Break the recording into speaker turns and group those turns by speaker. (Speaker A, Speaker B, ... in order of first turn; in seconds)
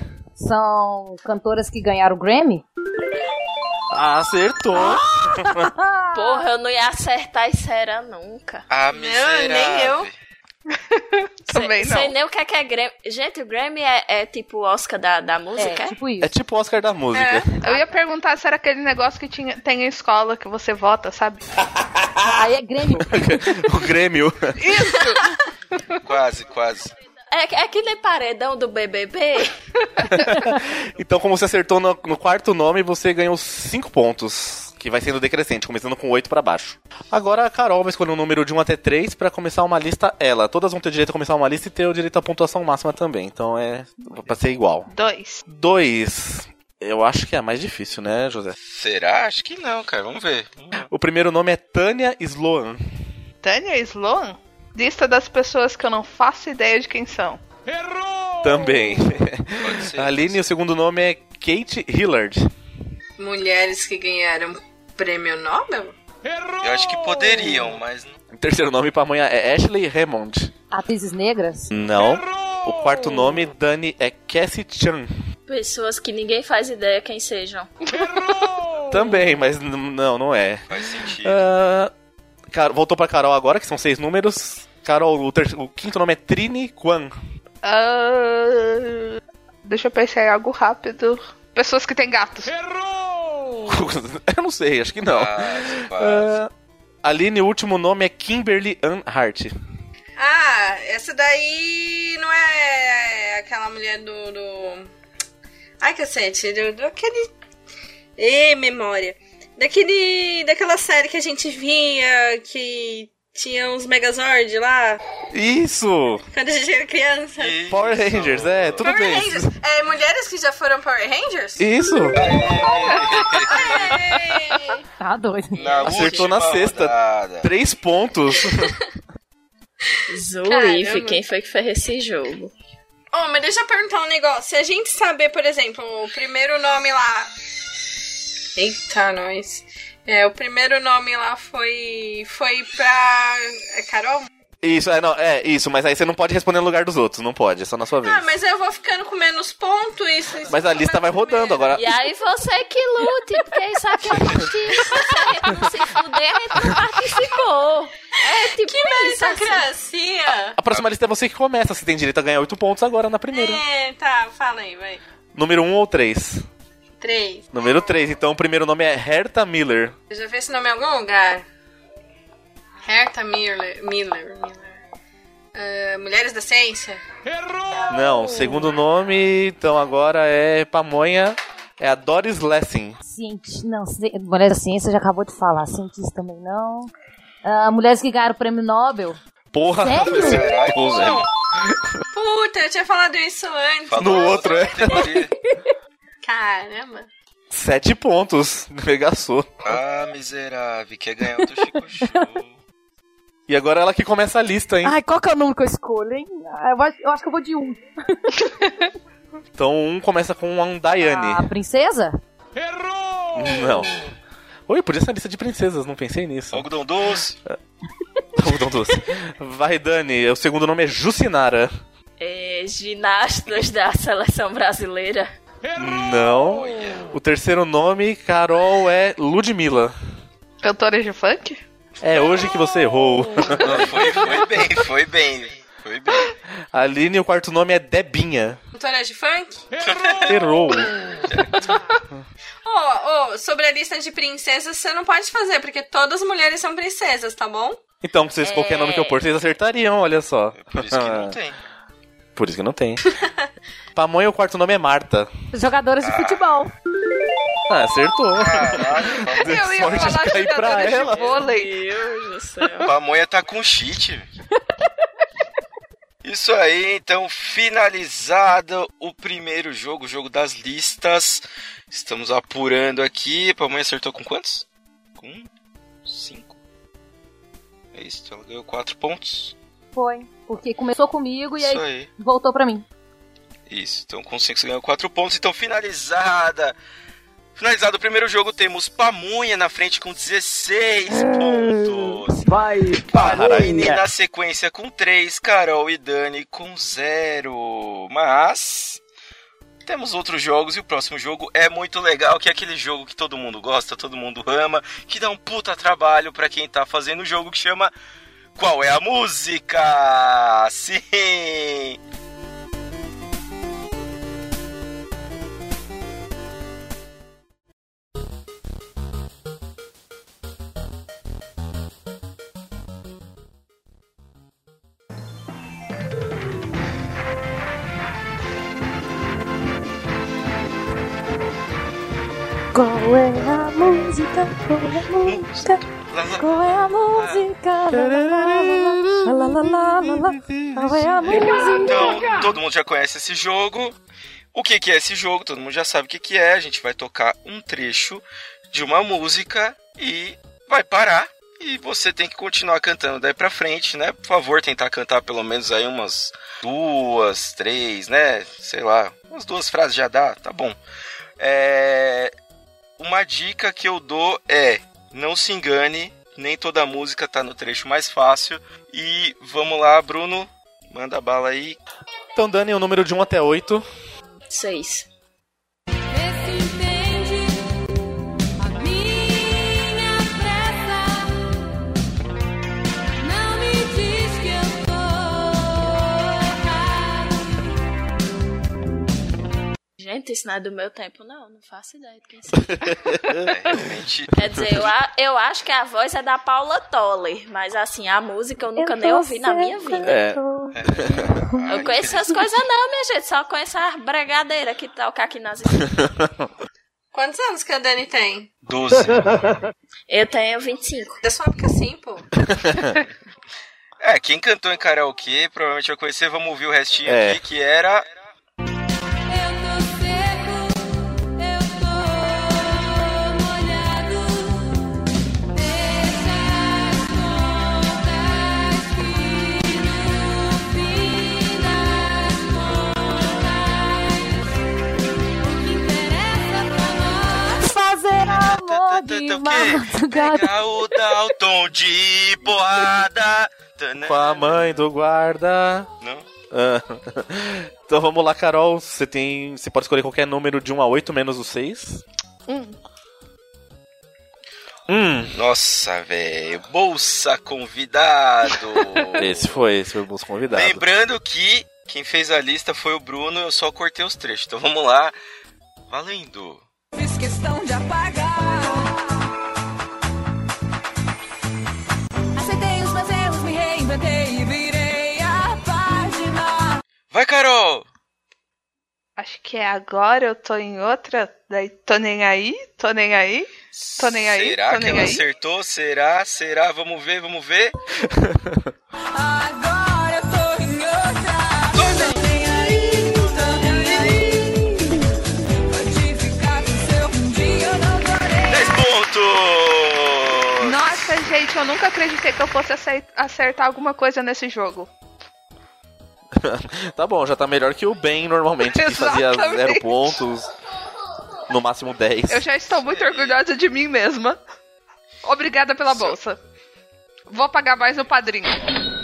Speaker A: 0.4-2.6, 4.7-6.4, 15.6-16.3, 22.3-23.7, 70.7-71.7, 125.0-125.7, 183.1-186.9, 187.4-189.2, 189.8-190.6, 204.8-208.3, 211.0-212.2, 255.5-256.7, 279.9-282.8, 332.7-335.8, 336.4-342.4, 398.8-400.8, 401.4-401.7, 437.6-441.2
Speaker B: 3.9-5.7, 16.2-17.5, 23.0-24.7, 30.1-44.9, 45.5-48.6, 50.9-52.8, 58.4-62.5, 68.3-70.5, 71.7-75.1, 78.9-81.9, 82.5-87.1, 93.6-96.5, 97.0-99.5, 115.3-116.2, 117.7-119.5, 121.6-122.3, 125.8-128.7, 144.6-148.2, 150.5-151.9, 160.6-163.6, 165.3-166.4, 167.5-169.9, 177.9-183.0, 189.5-191.9, 194.0-195.1, 197.5-199.7, 203.5-204.9, 209.6-211.5, 213.3-213.9, 214.7-216.7, 218.3-221.7, 225.8-229.9, 232.0-234.2, 236.7-238.6, 240.3-240.9, 248.0-251.3, 252.3-253.0, 253.9-255.3, 257.7-261.4, 293.1-294.0, 337.9-341.4, 372.3-373.8, 392.7-393.4, 400.0-400.4, 412.5-412.9, 417.1-417.4, 444.0-445.9, 446.5-452.0, 454.9-455.3, 459.2-460.8, 488.0-488.7, 506.4-510.5, 511.5-512.5
Speaker C: 6.1-8.6, 11.5-15.9, 27.3-29.5, 75.5-77.7, 125.7-126.2, 130.1-132.5, 151.7-159.6, 222.2-225.3, 248.4-249.2, 261.1-262.9, 374.5-375.1, 390.0-392.7, 394.3-400.2, 401.7-405.9, 410.1-411.2
Speaker D: 8.7-10.1, 26.0-26.9, 48.7-50.9, 59.6-60.4, 66.6-68.2, 80.7-81.5, 95.1-96.3, 117.4-118.9, 122.1-124.0, 125.5-127.5, 190.0-191.3, 193.9-195.3, 199.6-202.6, 216.5-217.4, 226.5-227.1, 233.5-236.3, 239.9-240.3, 241.2-241.5, 250.6-251.6, 256.0-256.5, 258.4-260.0, 262.8-264.3, 266.2-274.6, 275.2-275.5, 276.1-276.6, 277.9-279.5, 281.6-282.1, 283.7-286.8, 287.6-292.4, 293.1-299.0, 299.9-307.9, 308.6-312.0, 335.2-337.5, 341.3-344.0, 344.5-360.8, 361.4-362.3, 363.0-371.8, 393.4-394.8, 400.7-402.4, 408.6-409.4, 414.0-418.1, 438.2-444.7, 446.0-446.3, 455.3-459.6, 460.5-465.2, 465.9-466.6, 477.1-477.9, 483.7-487.8, 491.7-492.2, 498.5-501.0, 512.8-513.4, 515.9-516.2
Speaker E: 8.9-10.1, 17.1-17.5, 63.2-66.0, 100.2-104.9, 105.8-107.3, 108.2-115.0, 116.3-117.6, 118.8-124.8, 130.4-131.2, 133.1-137.5, 138.5-144.3, 148.0-151.7, 154.8-155.3, 158.4-160.6, 163.3-165.0, 167.0-167.4, 170.1-171.4, 172.8-174.8, 175.5-177.0, 192.1-195.0, 196.2-197.1, 238.7-239.7, 242.6-247.8, 407.1-408.5, 411.2-412.2
Speaker F: 10.8-12.1, 17.6-21.4, 24.6-25.3, 44.9-45.4, 53.4-57.4, 87.6-92.6, 230.6-231.6, 259.4-261.7, 452.5-452.8, 479.2-485.2, 500.6-504.9, 508.7-510.2, 512.3-514.4, 515.2-516.4, 517.3-518.6
Speaker G: 376.1-377.7, 378.6-381.4, 383.2-387.7, 419.3-424.9, 425.5-434.5, 435.4-437.7, 466.9-469.0, 472.3-476.8, 489.1-495.0, 495.7-498.8